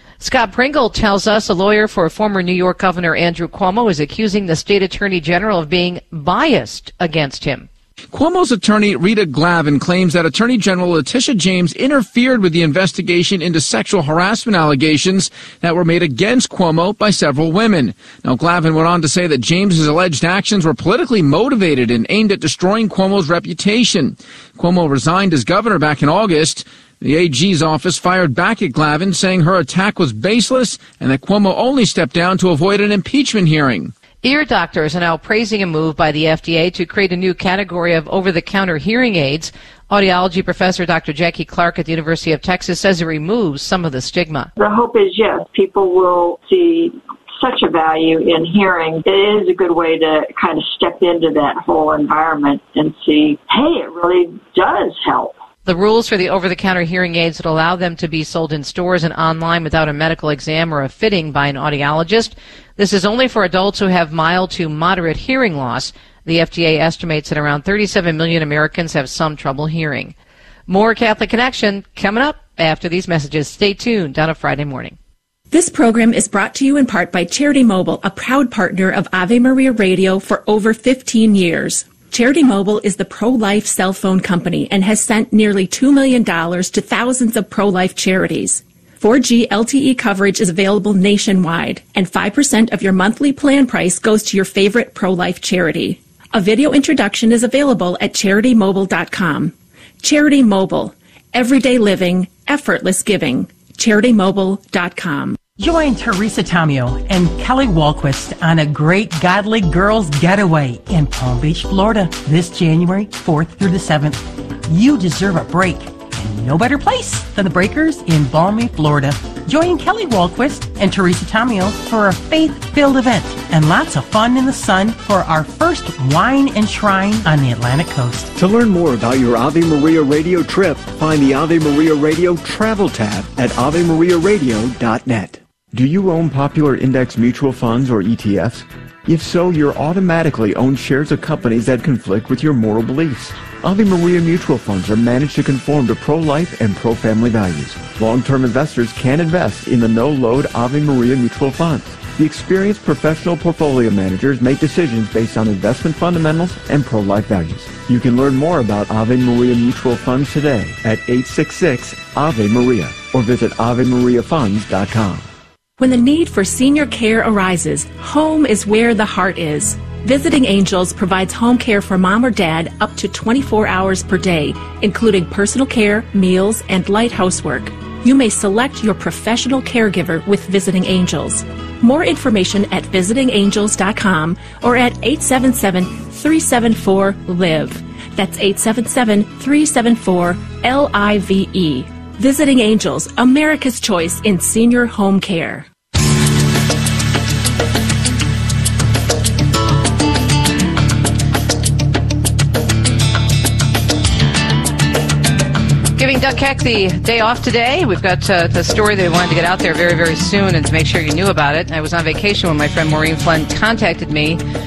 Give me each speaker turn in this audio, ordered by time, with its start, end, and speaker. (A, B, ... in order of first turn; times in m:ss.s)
0:00.2-0:07.7 A
0:08.1-0:33.9 B
0:34.2-0:44.5 A
0:44.6-0:55.4 C
0:55.6-1:10.1 A
1:10.7-1:15.0 A
1:15.5-1:45.4 D
1:45.6-2:08.3 E
2:08.4-2:45.3 F
2:45.8-3:15.7 D
3:26.0-3:34.4 A